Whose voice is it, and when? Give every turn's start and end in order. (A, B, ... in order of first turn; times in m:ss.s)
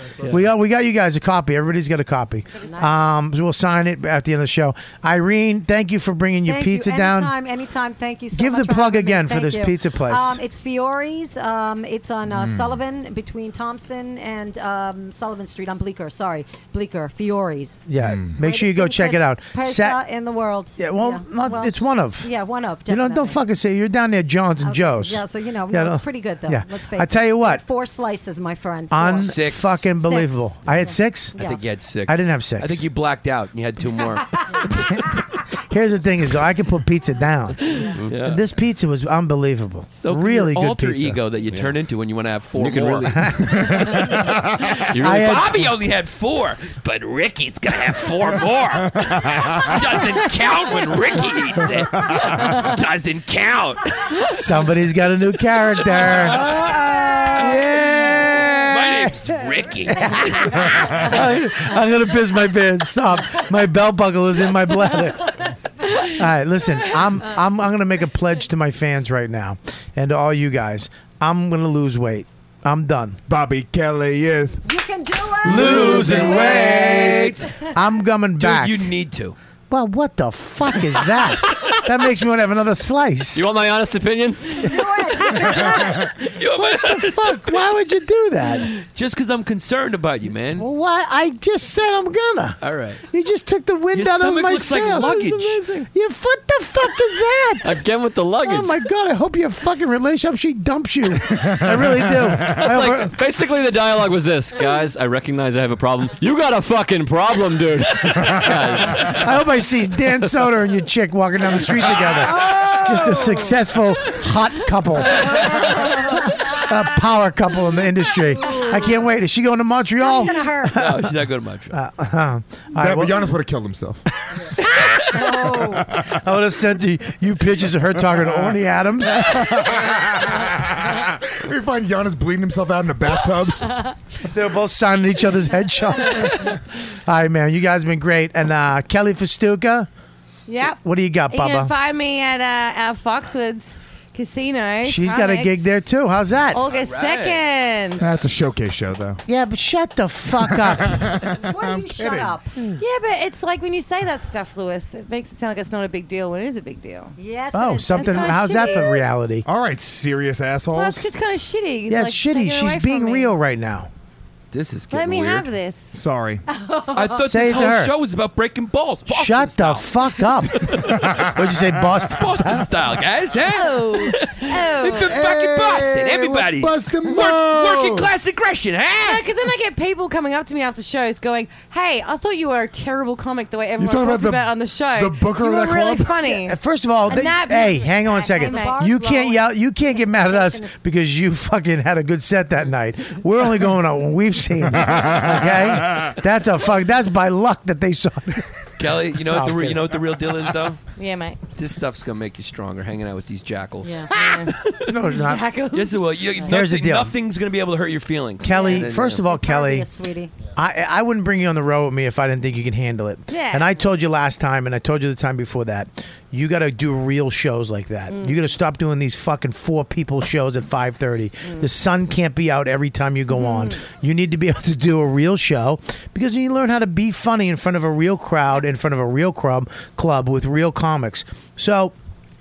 0:00.2-0:07.3 A
0:02.6-0:02.9 B
0:06.5-0:17.8 B
0:08.3-0:10.4 A
0:12.3-0:12.8 C
0:17.9-0:20.0 A
0:18.0-0:18.3 C
0:18.4-0:23.4 B
0:20.8-0:22.3 A
0:22.9-0:27.6 A
0:24.6-0:29.3 B
0:28.9-0:31.4 A
0:29.2-0:29.9 D
0:30.0-0:31.6 B
0:31.4-0:34.9 D
0:32.1-0:32.9 A
0:35.1-0:37.7 A
0:37.7-0:38.4 D
0:38.2-0:41.2 A
0:39.9-0:43.3 D
0:41.5-0:41.8 E
0:42.6-0:45.7 E
0:43.1-0:44.0 A
0:43.5-0:44.4 C
0:45.0-0:45.7 A
0:45.1-0:54.3 D
0:49.0-0:49.6 C
0:54.2-0:59.3 A
0:55.9-0:56.8 D
0:58.4-1:00.6 D
0:59.9-1:05.3 A
1:06.0-1:13.2 A
1:13.3-1:14.6 C
1:14.6-1:16.0 B
1:15.4-1:18.9 A
1:15.5-1:16.3 C
1:15.5-1:17.4 D
1:16.0-1:17.7 F
1:18.4-1:19.4 D
1:19.7-1:23.4 A
1:23.4-1:24.7 E
1:24.6-1:26.1 B
1:26.2-1:27.7 D
1:26.4-1:28.7 A
1:28.8-1:30.7 D
1:30.6-1:37.8 A
1:32.6-1:33.0 D
1:33.9-1:35.9 D
1:37.6-1:38.7 E
1:38.4-1:43.2 A
1:41.3-1:42.6 C
1:42.5-1:49.2 E
1:48.2-1:49.2 C
1:49.0-2:01.2 A
1:52.0-1:53.5 D
1:55.9-1:56.2 B
1:58.4-1:58.9 B
2:00.0-2:00.8 B
2:00.7-2:01.8 D
2:01.7-2:03.3 A
2:02.8-2:04.0 C
2:05.0-2:05.9 B
2:06.0-2:09.7 A
2:08.1-2:08.5 C
2:09.1-2:13.8 C
2:14.2-2:19.9 A
2:20.5-2:20.8 F
2:20.8-2:21.7 A
2:21.3-2:25.6 F
2:24.8-2:26.6 A
2:26.5-2:28.1 F
2:26.6-2:27.5 D
2:28.0-2:29.2 C
2:29.3-2:31.1 A
2:30.4-2:32.7 C
2:31.4-2:32.5 B
2:32.8-2:37.2 F
2:37.2-2:39.0 B
2:37.5-2:39.5 A
2:37.9-2:38.9 F
2:39.4-2:41.1 C
2:40.7-2:43.3 F
2:41.9-2:43.9 A
2:44.5-2:45.5 D
2:44.9-2:46.0 F
2:45.9-2:46.4 C
2:46.5-2:47.2 B
2:46.9-2:51.2 D
2:47.2-2:47.9 A
2:49.1-2:52.7 A
2:50.8-2:52.1 C
2:52.1-2:59.3 D
2:53.4-2:55.1 F
2:55.0-2:58.1 C
2:59.0-3:08.8 F
3:03.8-3:06.4 C
3:06.4-3:18.5 A
3:07.1-3:10.8 B
3:14.8-3:16.1 C
3:18.8-3:20.9 D
3:19.2-3:20.0 A
3:20.9-3:21.4 F
3:21.6-3:24.9 D
3:23.8-3:24.1 B
3:24.1-3:26.0 F
3:24.9-3:25.5 A
3:25.7-3:29.2 D
3:26.4-3:27.1 A
3:28.4-3:29.9 A
3:28.5-3:30.3 B
3:30.6-3:52.0 A
3:33.3-3:33.8 F
3:38.1-3:38.4 F
3:41.4-3:41.7 F
3:43.3-3:43.8 F